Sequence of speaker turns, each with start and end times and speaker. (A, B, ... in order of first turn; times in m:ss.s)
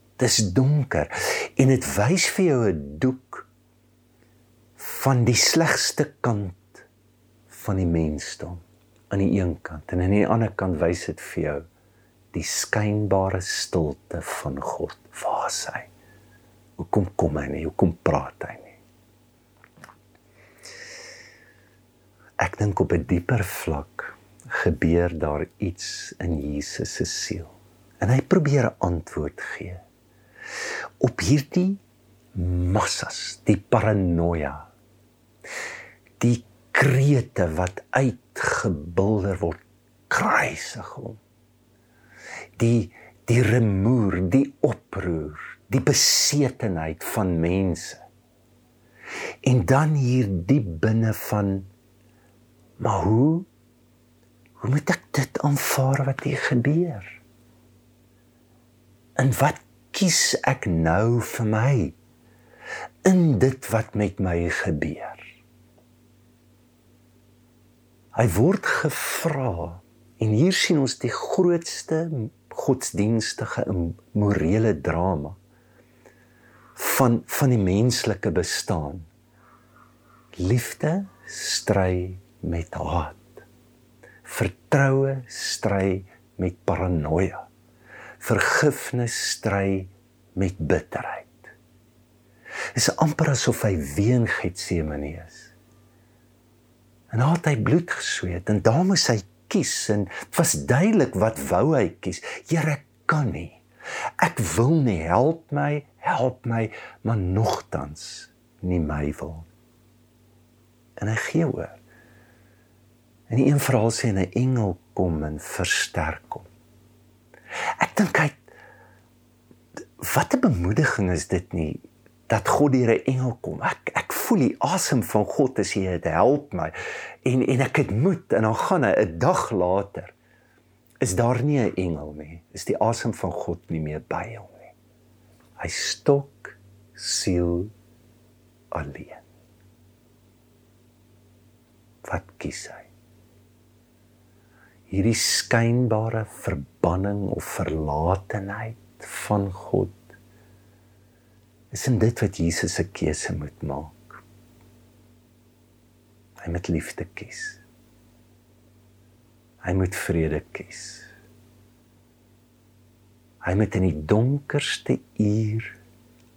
0:00.2-0:03.5 A
0:04.8-0:06.9 A
0:07.5-0:11.7 A
0:12.3-0:15.9 A
0:16.8-0:18.8 A
0:22.4-0:29.8 A
0:31.0-0:31.8 A
0:32.3-0:34.7 A
0:36.2-0:41.2 A
0:42.6-0:48.0 A
0:49.4-0:51.7 A
0:52.8-0:53.5 A
0:54.6-0:57.2 A
0:59.2-1:02.0 A
1:03.0-1:05.4 A
1:08.1-1:15.4 A
1:16.8-1:19.1 A
1:20.4-1:23.4 A
1:24.2-1:27.5 A
1:28.2-1:31.5 A
1:32.8-1:35.5 A
1:37.1-1:43.6 A
1:44.2-1:49.5 A
1:51.0-1:51.8 A
1:53.3-1:56.5 A
1:57.8-1:58.5 A
2:00.0-2:10.1 A
2:11.0-2:14.7 A
2:15.6-2:17.7 A
2:18.7-2:19.2 A
2:22.0-2:22.9 A
2:24.9-2:30.0 A
2:31.7-2:34.2 A
2:36.4-2:37.6 A
2:39.6-2:41.1 A
2:43.4-2:45.8 A